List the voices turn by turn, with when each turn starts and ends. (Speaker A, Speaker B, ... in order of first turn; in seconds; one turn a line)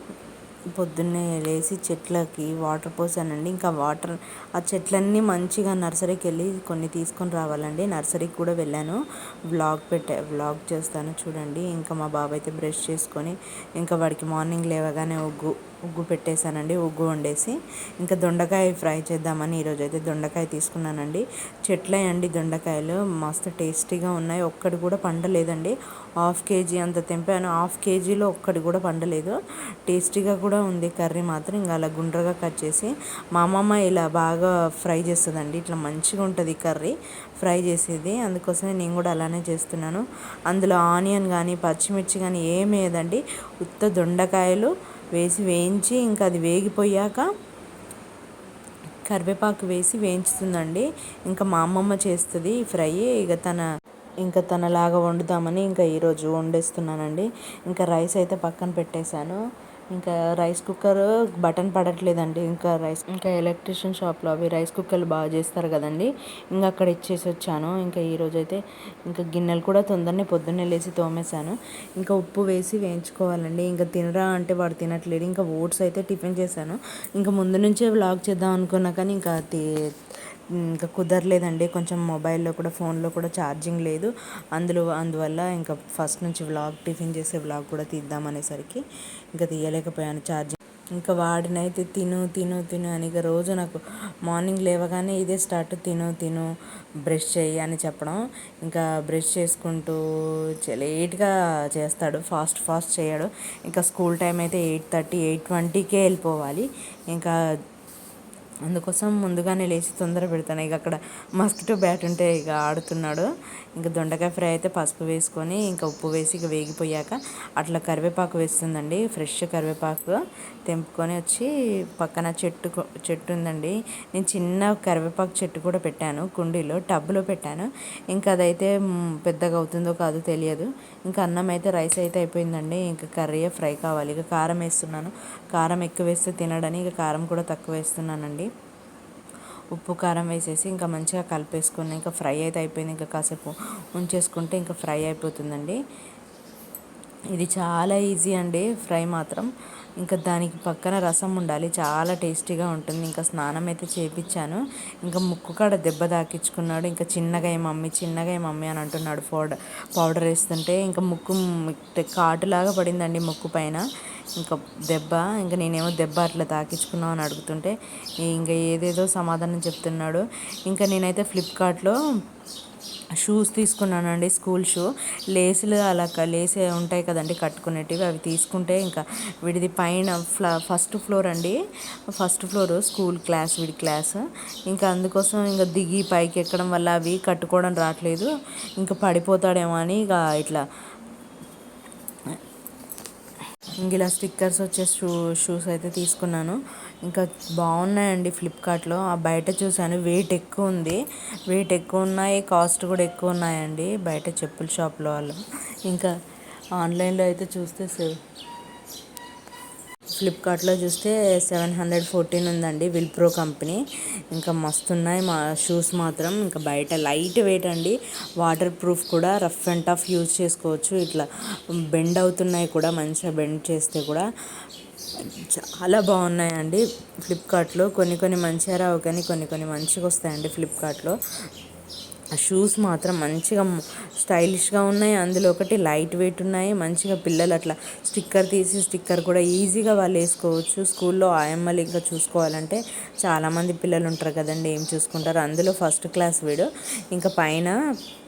Speaker A: 0.7-47.3
Speaker A: 49.0-53.6
Speaker A: 54.2-59.4
Speaker A: 59.9-79.7
Speaker A: 80.5-96.5
Speaker A: 97.0-107.3
Speaker A: 108.7-138.5
Speaker A: 139.7-145.8
Speaker A: 147.3-149.5
Speaker A: 150.0-172.0
Speaker A: 173.2-181.6
Speaker A: 182.1-190.6
Speaker A: 193.8-206.1
Speaker A: 206.8-208.2
Speaker A: 210.2-221.3
Speaker A: 221.8-224.2
Speaker A: 225.2-231.2
Speaker A: 232.3-247.8